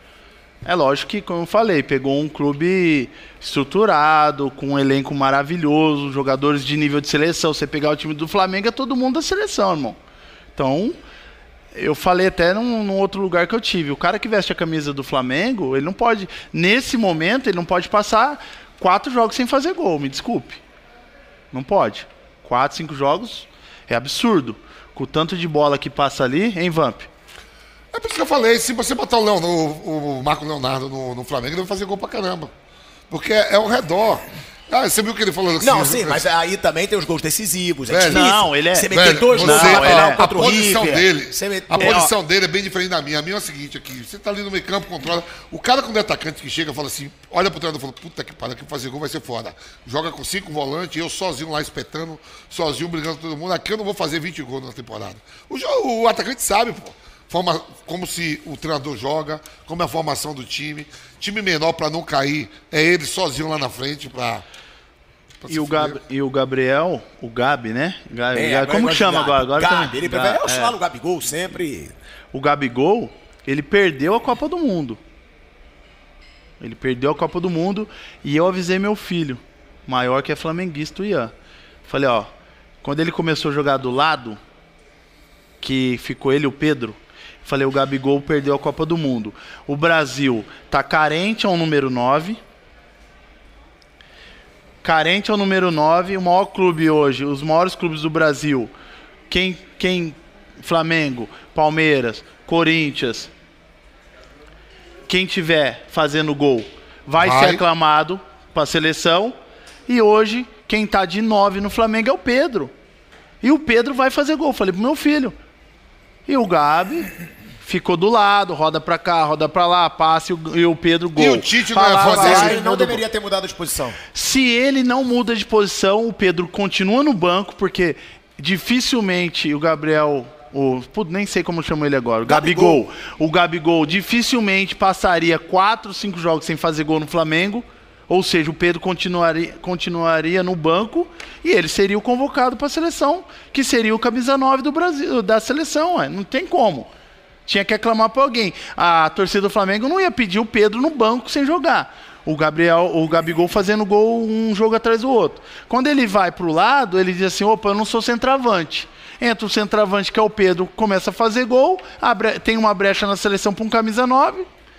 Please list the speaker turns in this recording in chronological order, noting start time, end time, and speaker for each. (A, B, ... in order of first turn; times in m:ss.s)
0:00.6-0:10.0 A
0:10.6-0:11.0 A
0:11.7-0:20.6 A
0:21.5-0:27.1 A
0:27.9-0:32.5 B
0:33.1-0:36.2 B
0:35.6-0:42.1 C
0:37.9-0:38.3 B
0:38.1-0:41.0 A
0:38.9-1:04.4 B
0:41.8-0:42.1 A
1:05.4-1:06.0 B
1:05.5-1:10.8 A
1:08.3-1:12.0 C
1:12.3-1:15.0 A
1:16.6-1:21.3 A
1:21.8-1:22.3 A
1:22.8-1:24.4 A
1:25.6-1:32.4 A
1:34.8-1:38.7 A
1:39.3-1:43.3 A
1:45.1-1:49.3 A
1:47.2-1:47.6 B
1:49.9-1:52.7 A
1:53.4-1:55.3 A
1:56.2-1:57.1 A
1:57.6-2:03.0 A
2:01.2-2:02.6 B
2:02.0-2:04.0 C
2:04.1-2:26.9 A
2:12.2-2:12.8 C
2:27.4-2:44.5 A